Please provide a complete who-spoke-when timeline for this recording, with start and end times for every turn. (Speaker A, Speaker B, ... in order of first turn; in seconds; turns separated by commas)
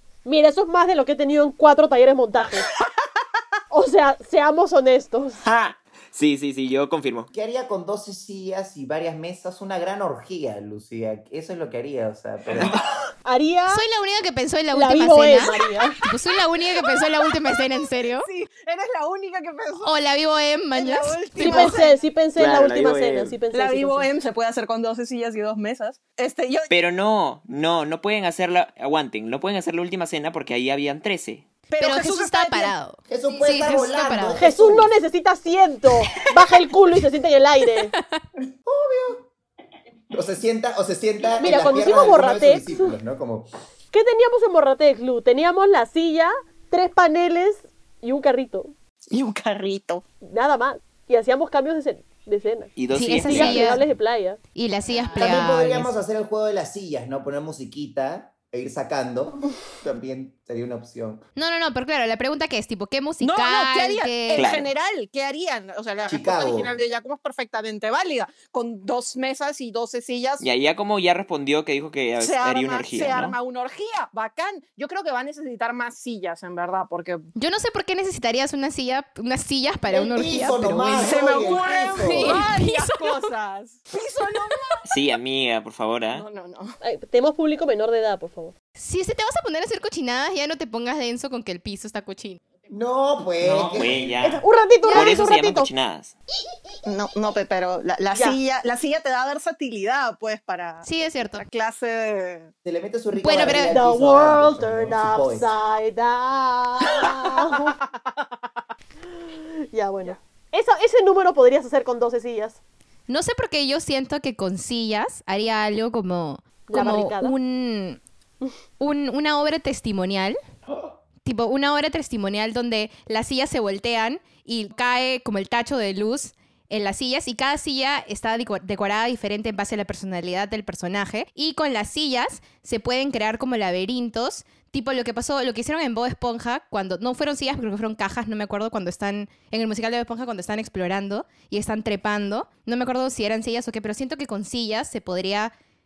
Speaker A: 0.2-2.7, Speaker A: 3.7-5.4, Speaker B: 5.4-7.3, Speaker C: 7.3-12.8, Speaker B: 12.5-12.8, Speaker A: 13.2-13.8, Speaker D: 13.7-18.3, Speaker A: 14.7-16.0, Speaker E: 18.2-19.9, Speaker D: 19.8-21.8, Speaker E: 20.8-22.0, Speaker A: 21.4-24.1, Speaker B: 22.4-23.4, Speaker E: 23.5-26.7, Speaker B: 26.7-31.4, Speaker E: 31.7-32.7, Speaker D: 31.8-34.5, Speaker C: 33.1-34.9, Speaker A: 34.4-37.9, Speaker D: 38.0-38.2, Speaker C: 38.7-39.3, Speaker C: 40.1-43.5, Speaker A: 41.4-43.0, Speaker A: 43.9-48.7, Speaker E: 49.1-50.0, Speaker A: 50.2-54.4, Speaker B: 52.8-53.8, Speaker D: 52.9-53.8, Speaker D: 54.5-55.9, Speaker C: 55.1-61.2, Speaker D: 61.4-64.5, Speaker E: 63.2-70.4, Speaker B: 64.3-64.7, Speaker C: 66.1-66.7, Speaker B: 70.4-73.4, Speaker E: 72.2-77.2, Speaker D: 77.4-81.2, Speaker C: 79.9-82.5, Speaker E: 81.0-84.9, Speaker D: 82.0-83.2, Speaker B: 84.9-86.2, Speaker E: 86.1-86.8, Speaker A: 86.8-88.5, Speaker D: 88.8-92.4, Speaker C: 92.7-94.1, Speaker B: 93.4-96.2, Speaker A: 94.2-95.7, Speaker D: 94.8-95.3, Speaker E: 96.9-102.5, Speaker D: 100.8-101.4, Speaker C: 102.7-105.5, Speaker D: 103.2-103.8, Speaker A: 103.5-107.8, Speaker A: 109.3-112.6, Speaker D: 113.1-118.0, Speaker A: 116.7-117.4, Speaker D: 118.8-120.4, Speaker D: 121.2-145.5